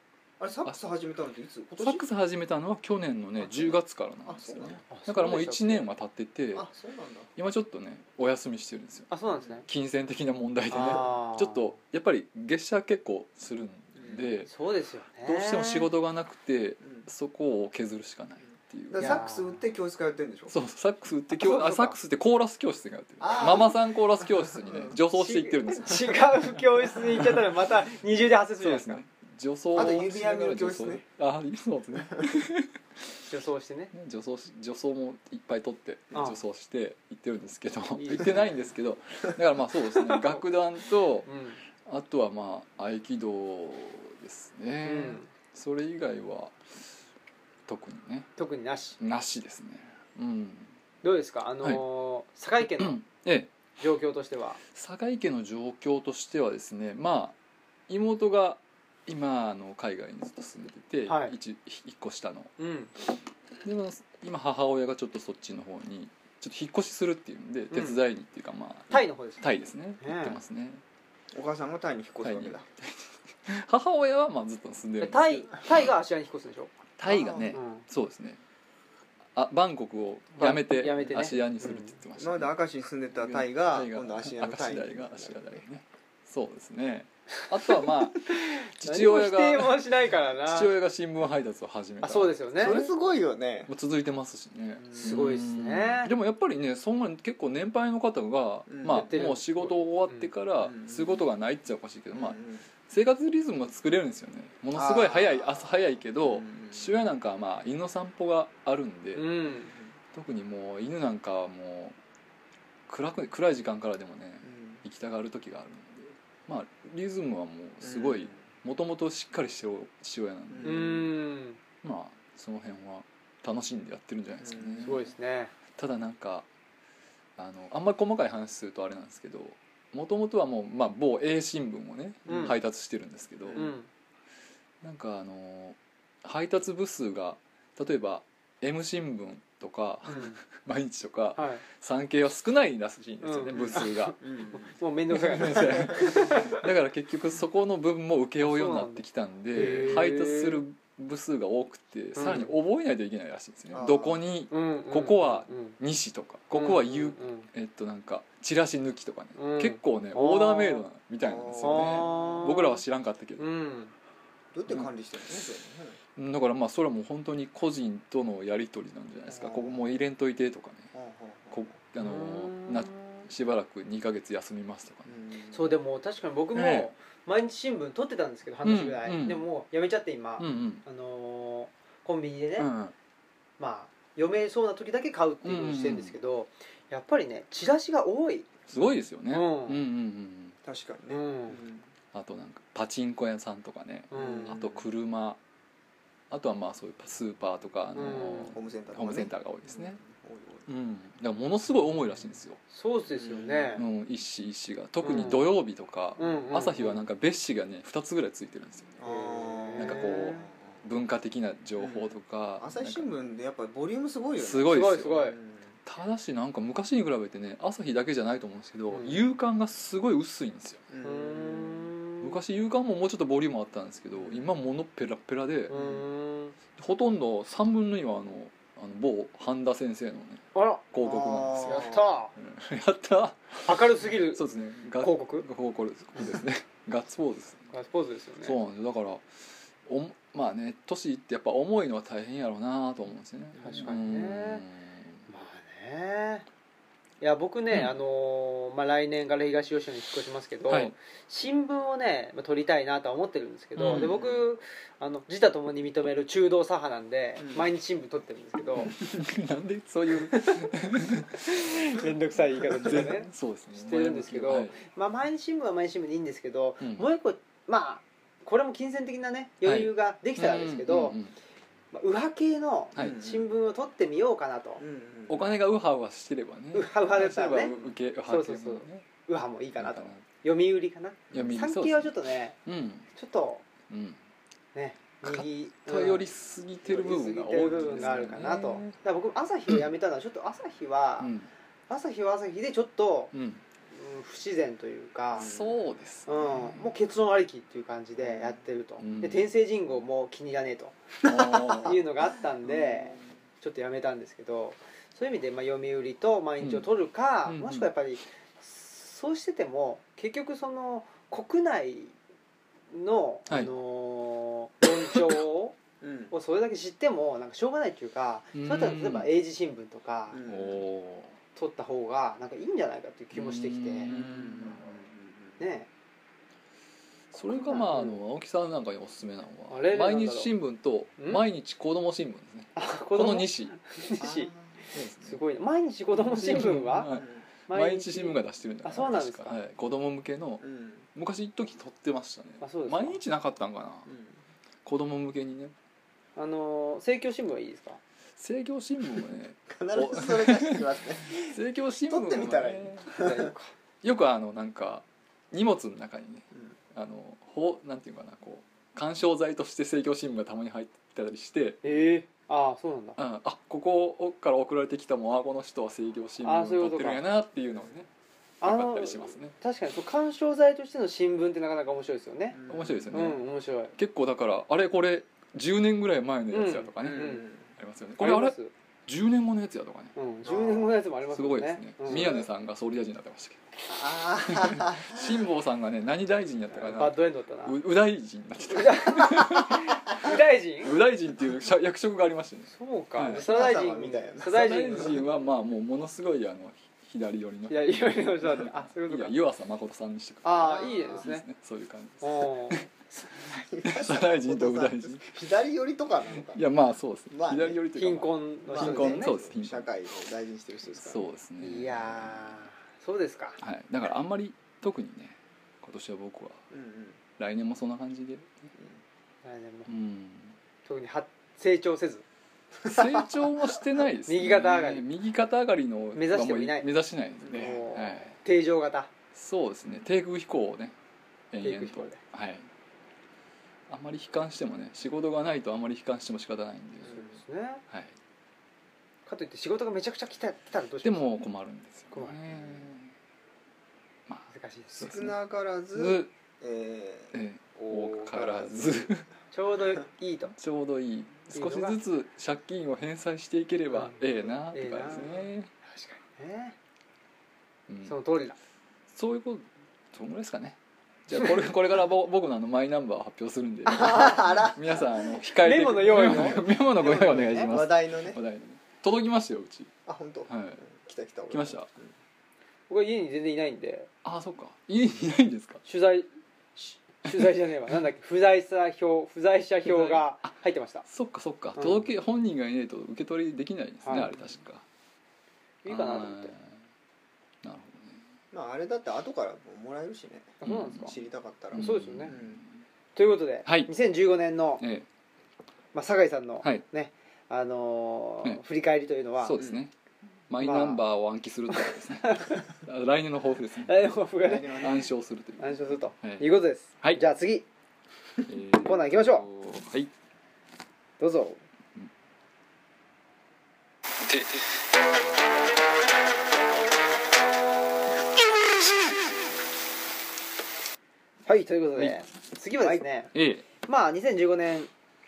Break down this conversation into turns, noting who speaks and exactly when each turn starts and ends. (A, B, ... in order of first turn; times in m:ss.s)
0:00.4-0:02.0 A
0:01.8-0:06.7 B
0:03.4-0:04.8 A
0:04.9-0:05.9 C
0:06.5-0:07.3 A
0:07.4-0:09.1 B
0:09.1-0:09.7 C
0:09.7-0:14.5 B
0:10.7-0:11.7 C
0:10.7-0:11.0 A
0:14.0-0:14.2 A
0:14.4-0:15.9 C
0:15.2-0:19.2 B
0:18.9-0:20.5 A
0:19.0-0:19.6 C
0:20.5-0:27.4 B
0:21.4-0:21.9 C
0:23.2-0:24.9 A
0:25.1-0:29.0 C
0:28.6-0:32.7 B
0:29.7-0:31.0 A
0:33.3-0:33.9 C
0:33.9-0:41.3 B
0:36.1-0:36.4 C
0:38.0-0:38.5 C
0:39.9-0:40.4 C
0:41.2-0:41.6 C
0:41.8-0:46.6 B
0:44.8-0:45.3 C
0:47.7-0:48.3 B
0:48.4-0:49.0 C
0:49.0-0:50.7 B
0:51.0-0:53.0 C
0:52.6-0:53.5 B
0:53.8-0:54.6 C
0:54.7-0:57.3 B
0:57.9-1:02.5 B
1:01.1-1:01.3 C
1:02.6-1:02.9 C
1:03.6-1:10.8 B
1:07.7-1:08.0 C
1:08.9-1:09.4 C
1:10.0-1:10.4 C
1:11.3-1:12.6 A
1:12.2-1:15.8 B
1:15.0-1:16.7 C
1:17.0-1:18.4 B
1:17.1-1:17.5 A
1:17.5-1:17.8 C
1:19.3-1:22.5 B
1:20.4-1:22.0 C
1:22.2-1:25.6 A
1:23.2-1:29.9 B
1:27.8-1:30.7 C
1:30.4-1:32.9 B
1:32.0-1:32.8 C
1:32.6-1:33.7 A
1:33.7-1:49.4 B
1:34.9-1:35.2 A
1:34.9-1:36.1 C
1:38.7-1:39.1 A
1:38.8-1:40.3 C
1:40.6-1:41.2 A
1:42.1-1:42.6 A
1:44.7-1:46.9 A
1:49.1-1:49.7 C
1:50.1-1:52.0 B
1:52.9-2:00.9 B
1:54.5-1:54.8 A
1:57.8-1:58.4 A
2:00.5-2:01.1 A
2:00.6-2:01.6 C
2:01.8-2:05.0 B
2:04.4-2:05.0 A
2:04.8-2:05.5 C
2:05.7-2:06.5 B
2:07.4-2:13.7 B
2:12.2-2:12.6 C
2:12.3-2:12.6 A
2:13.4-2:13.7 A
2:13.5-2:13.9 C
2:14.8-2:24.2 B
2:20.1-2:20.4 C
2:21.4-2:21.6 C
2:23.2-2:26.6 C
2:23.5-2:24.7 A
2:25.1-2:43.4 B
2:28.4-2:29.0 C
2:29.5-2:30.6 C
2:32.2-2:32.5 C
2:33.7-2:34.2 A
2:34.5-2:35.8 C
2:36.5-2:37.5 C
2:39.4-2:40.8 C
2:41.2-2:42.5 A
2:41.6-2:42.8 C
2:43.4-2:43.9 C
2:44.5-2:46.0 A
2:46.2-2:50.9 B
2:49.3-2:49.9 A
2:50.9-2:51.7 A
2:51.5-2:55.2 B
2:52.0-2:53.2 C
2:55.1-2:55.7 A
2:55.5-3:02.7 C
2:56.5-2:56.9 B
2:58.6-2:59.4 B
3:00.4-3:00.8 B
3:02.6-3:02.9 B
3:03.6-3:08.5 C
3:05.4-3:06.1 B
3:08.7-3:10.6 B
3:09.3-3:09.8 C
3:10.6-3:11.9 A
3:11.1-3:11.6 C
3:12.1-3:15.4 B
3:14.1-3:14.6 C
3:14.1-3:14.8 A
3:16.3-3:20.0 B
3:17.9-3:18.5 C
3:18.5-3:20.6 A
3:20.7-3:22.6 B
3:22.7-3:23.8 C
3:23.1-3:23.8 A
3:23.8-3:28.9 B
3:25.0-3:25.5 C
3:26.2-3:27.0 C
3:29.0-3:30.5 A
3:29.0-3:30.5 C
3:29.8-3:33.0 B
3:31.8-3:35.7 A
3:34.4-3:40.8 B
3:34.7-3:35.4 C
3:38.9-3:39.2 C
3:40.9-3:41.9 A
3:41.0-3:42.4 C
3:42.2-3:45.7 B
3:44.2-3:44.5 A
3:45.7-3:46.6 C
3:45.7-3:46.0 A
3:46.8-3:57.7 B
3:50.5-3:50.8 C
3:51.0-3:52.0 A
3:51.6-3:52.3 C
3:53.6-3:54.4 C
3:55.0-3:55.4 C
3:57.7-3:58.6 C
3:58.4-3:59.2 B
3:59.8-4:05.2 B
4:03.6-4:03.9 A
4:03.6-4:04.6 C
4:05.3-4:06.4 C
4:07.2-4:18.9 C
4:10.7-4:10.9 B
4:13.8-4:14.2 B
4:13.9-4:14.4 A
4:17.4-4:17.7 A
4:18.8-4:21.6 B
4:20.3-4:20.7 C
4:21.3-4:31.2 C
4:22.8-4:24.8 B
4:26.8-4:27.1 B
4:29.6-4:31.3 B
4:31.9-4:34.8 C
4:33.0-4:33.4 A
4:34.8-4:35.5 A
4:35.3-4:39.0 B
4:36.7-4:37.7 C
4:38.3-4:42.6 C
4:39.8-4:40.2 B
4:41.3-4:43.1 B
4:43.1-4:43.6 C
4:43.9-4:44.2 B
4:44.7-4:46.2 C
4:45.2-4:49.0 B
4:46.8-4:51.3 C
4:47.9-4:48.2 A
4:51.2-4:51.5 B
4:51.9-4:53.3 C
4:53.3-4:53.6 B
4:53.9-4:55.5 C
4:55.3-4:56.9 B
4:55.3-4:55.7 A
4:56.2-5:01.0 C
4:58.2-4:58.6 A
4:59.0-4:59.5 B
5:01.2-5:01.8 A
5:01.2-5:02.0 B
5:01.8-5:12.1 C
5:02.6-5:03.2 A
5:06.6-5:06.9 B
5:07.4-5:07.9 B
5:12.9-5:15.8 C
5:16.0-5:16.3 A
5:16.3-5:20.4 C
5:18.5-5:19.3 B
5:20.3-5:20.8 A
5:20.4-5:21.4 B
5:21.5-5:24.1 C
5:23.3-5:24.8 B
5:24.1-5:25.6 A
5:25.6-5:25.9 C
5:27.3-5:33.7 B
5:27.5-5:28.2 C
5:29.7-5:30.5 C
5:32.8-5:37.1 C
5:34.2-5:34.8 A
5:34.9-5:35.4 B
5:36.2-5:44.1 B
5:37.1-5:37.4 A
5:37.7-5:39.6 C
5:40.6-5:41.0 A
5:42.6-5:43.2 C
5:44.1-5:44.4 A
5:44.8-5:45.7 B
5:46.4-5:48.0 C
5:48.4-5:53.2 B
5:49.7-5:51.6 A
5:52.1-5:53.5 A
5:53.1-5:53.7 C
5:54.0-6:01.8 B
6:01.8-6:03.2 C
6:03.2-6:08.1 B
6:06.4-6:07.2 C
6:08.6-6:09.5 B
6:08.6-6:13.9 C
6:12.5-6:13.3 A
6:12.7-6:13.4 B
6:14.0-6:18.6 B
6:16.5-6:17.4 C
6:17.0-6:17.7 A
6:18.2-6:18.7 C
6:19.1-6:20.1 B
6:20.1-6:22.4 C
6:20.4-6:21.0 A
6:21.3-6:23.6 B
6:22.1-6:22.5 A
6:23.9-6:25.4 A
6:24.4-6:33.4 B
6:26.8-6:27.8 C
6:28.7-6:30.9 C
6:32.7-6:35.2 C
6:33.2-6:35.2 A
6:34.4-6:42.8 B
6:37.7-6:39.3 C
6:40.4-6:41.4 C
6:40.5-6:41.2 A
6:42.2-6:43.3 C
6:43.4-6:45.3 B
6:43.4-6:46.6 A
6:46.4-6:49.9 B
6:47.3-6:47.8 A
6:47.9-6:49.3 C
6:48.7-6:51.3 A
6:51.0-6:52.6 B
6:51.6-6:53.6 C
6:53.6-6:56.6 B
6:56.7-6:57.2 A
6:57.4-6:58.7 B
6:59.4-6:59.9 C
6:59.9-7:00.6 B
7:00.8-7:02.2 C
7:02.8-7:08.4 B
7:04.3-7:05.0 C
7:06.1-7:06.9 C
7:07.4-7:07.8 A
7:07.5-7:09.1 C
7:09.3-7:10.9 B
7:11.5-7:12.7 B
7:11.6-7:12.2 C
7:13.9-7:17.2 B
7:17.0-7:17.3 A
7:17.1-7:17.8 C
7:19.2-7:21.3 C
7:21.0-7:23.1 B
7:22.1-7:22.4 C
7:24.3-7:25.3 B
7:24.5-7:25.0 C
7:24.9-7:29.1 A
7:25.9-7:26.3 B
7:27.3-7:29.2 B
7:29.5-7:30.5 C
7:30.6-7:35.7 B
7:31.5-7:32.0 C
7:33.9-7:34.2 C
7:34.7-7:36.8 C
7:37.9-7:38.2 B
7:38.0-7:38.6 C
7:39.1-7:49.9 B
7:43.9-7:44.4 C
7:43.9-7:45.0 A
7:45.6-7:47.7 C
7:47.0-7:48.4 A
7:50.0-7:52.1 A
7:50.5-7:50.8 B
7:51.5-7:51.9 B
7:52.9-7:54.1 C
7:54.2-7:55.8 B
7:55.8-8:01.0 C
7:59.8-8:00.5 B
8:01.0-8:04.8 B
8:01.8-8:02.0 C
8:04.0-8:04.3 C
8:05.8-8:06.5 C
8:05.8-8:06.7 B
8:07.6-8:08.2 B
8:08.5-8:12.6 A
8:10.6-8:11.2 C
8:10.6-8:11.1 B
8:11.7-8:12.7 B
8:11.7-8:12.3 C
8:13.2-8:14.8 C
8:13.6-8:13.9 B
8:14.8-8:15.0 B
8:15.9-8:19.6 C
8:19.4-8:19.9 B
8:20.5-8:26.5 B
8:20.6-8:21.0 C
8:21.7-8:22.7 C
8:23.8-8:25.0 C
8:24.4-8:25.1 A
8:25.6-8:27.6 C
8:28.4-8:30.1 B
8:28.8-8:29.4 C
8:31.2-8:31.6 C
8:34.2-8:34.6 B
8:41.4-8:43.3 C
8:43.3-8:43.6 B
8:43.8-8:44.9 C